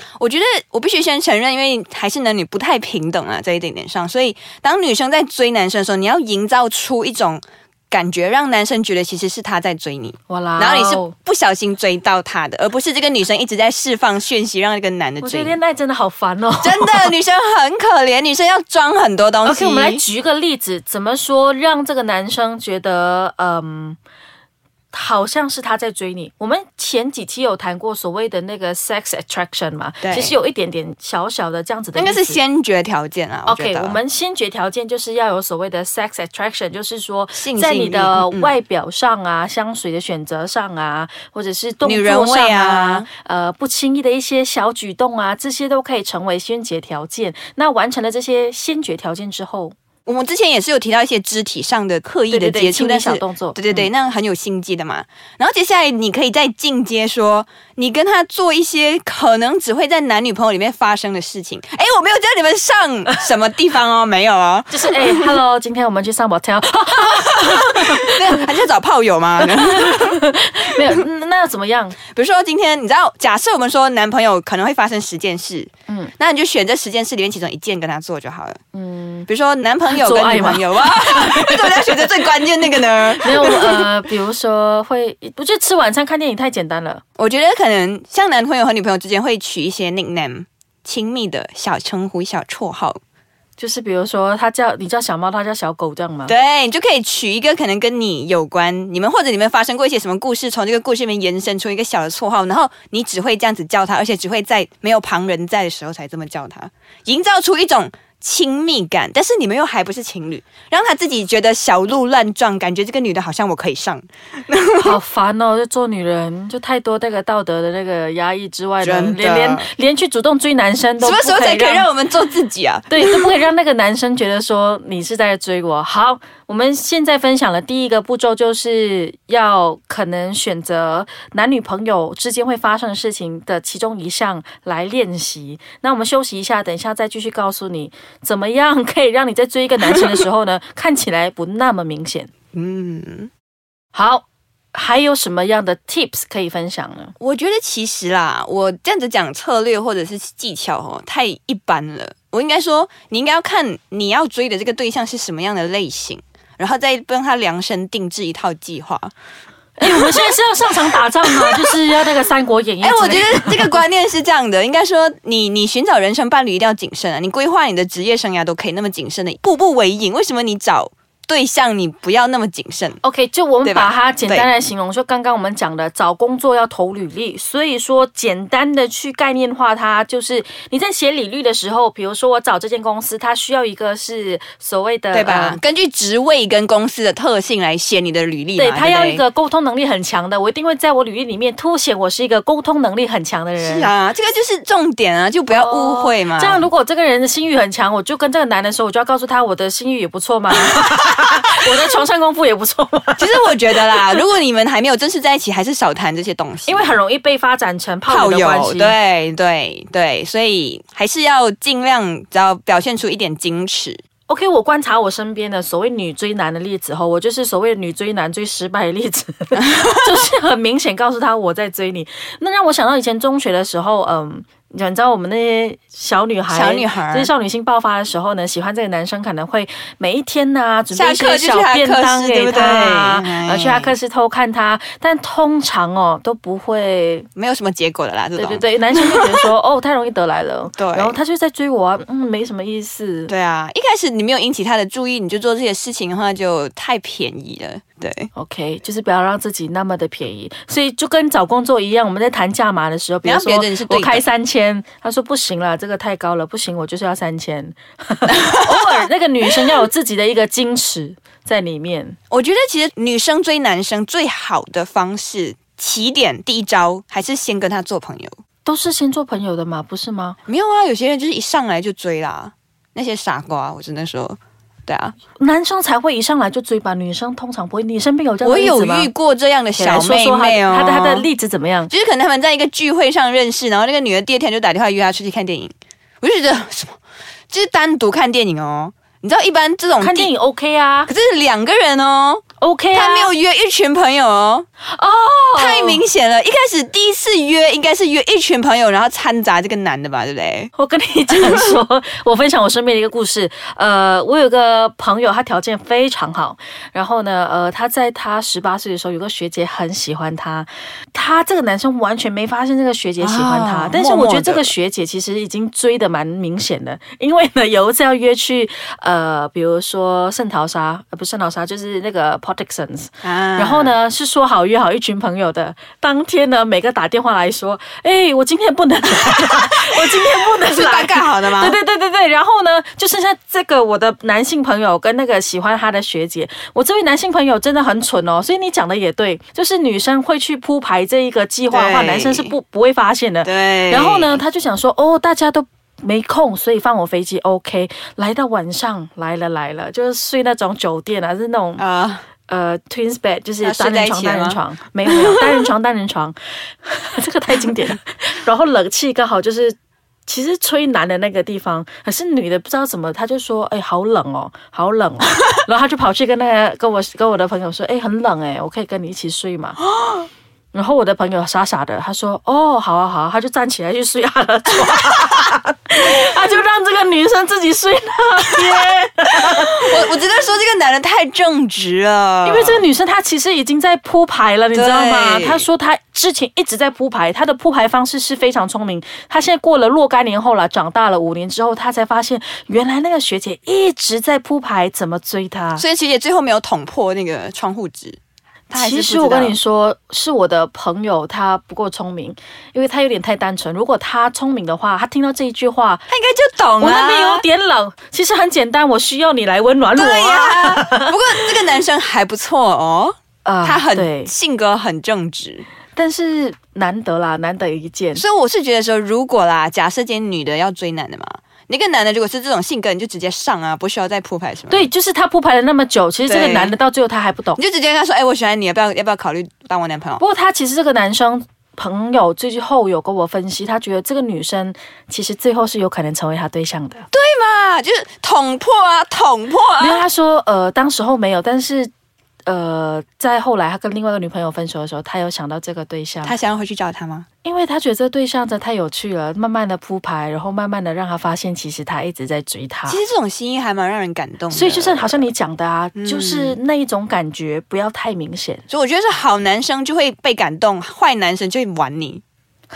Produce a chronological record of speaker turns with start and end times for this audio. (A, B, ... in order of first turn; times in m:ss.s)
0:00.2-0:15.6 A
0:10.3-0:11.1 B
0:15.2-0:17.1 B
0:16.6-0:20.0 A
0:19.4-0:24.0 B
0:24.9-0:32.4 B
0:30.0-0:30.4 A
0:31.9-0:34.0 A
0:33.4-0:49.7 B
0:37.3-0:38.5 A
0:41.8-0:43.1 A
0:50.0-1:05.3 A
0:52.3-0:53.9 B
1:04.7-1:08.5 B
1:07.0-1:10.2 A
1:09.4-1:12.0 B
1:12.1-1:18.6 A
1:18.7-1:19.3 B
1:19.3-1:23.9 A
1:19.8-1:22.2 B
1:23.2-1:27.0 B
1:27.2-1:33.0 A
1:33.6-1:36.3 B
1:36.3-1:55.0 A
1:54.8-2:01.9 B
1:58.8-1:59.7 A
2:01.0-2:03.3 A
2:02.9-2:22.3 B
2:22.5-2:23.3 A
2:23.9-2:27.1 B
2:27.2-2:39.1 A
2:39.8-2:43.8 B
2:39.8-2:40.3 A
2:41.2-2:41.8 A
2:42.8-2:53.0 A
2:53.0-3:05.6 B
2:53.6-2:54.5 A
3:05.1-3:09.2 A
3:08.6-3:13.9 B
3:13.6-3:16.6 A
3:15.5-3:24.2 B
3:20.7-3:21.4 A
3:23.2-3:27.0 A
3:26.6-3:29.0 B
3:28.0-3:34.0 A
3:34.3-3:57.3 B
3:39.6-3:40.0 A
3:46.5-3:47.3 A
3:50.9-3:53.9 A
3:57.4-3:59.5 A
3:58.4-4:03.3 B
4:00.8-4:01.2 A
4:03.3-4:08.3 A
4:08.3-4:22.2 B
4:13.2-4:14.3 A
4:18.4-4:19.1 A
4:22.3-4:28.4 A
4:28.6-4:30.4 B
4:30.5-4:35.1 A
4:35.4-4:39.1 B
4:38.4-4:41.3 A
4:39.8-4:41.9 B
4:41.9-4:47.0 A
4:47.5-4:50.3 A
4:50.0-4:51.1 B
4:51.1-4:52.4 A
4:52.6-4:53.3 B
4:52.9-4:54.6 A
4:54.8-4:56.0 B
4:55.5-5:00.7 A
5:00.7-5:51.8 B
5:01.3-5:01.8 A
5:13.2-5:14.7 A
5:23.2-5:23.9 A
5:29.5-5:31.8 A
5:41.7-5:42.5 A
5:43.4-5:44.4 A
5:51.8-5:52.2 A
5:52.5-6:09.8 B
5:53.6-5:55.7 A
6:10.7-6:20.1 B
6:14.8-6:15.3 A
6:18.7-6:22.8 A
6:22.4-6:35.8 B
6:24.7-6:25.7 A
6:35.8-6:38.2 A
6:38.7-6:39.6 A
6:38.7-6:46.1 B
6:46.1-6:47.4 A
6:46.8-6:51.5 B
6:49.9-6:55.6 A
6:53.4-6:54.3 B
6:55.9-6:58.2 B
6:58.1-7:04.9 A
7:04.7-7:07.6 B
7:06.3-7:06.8 A
7:07.6-7:10.2 A
7:10.2-7:17.0 B
7:17.1-7:20.0 A
7:19.8-7:21.9 B
7:22.4-7:26.3 B
7:26.2-7:27.3 A
7:27.4-7:33.0 B
7:32.9-7:35.3 A
7:34.5-7:38.6 B
7:36.0-7:36.6 A
7:38.7-7:42.2 A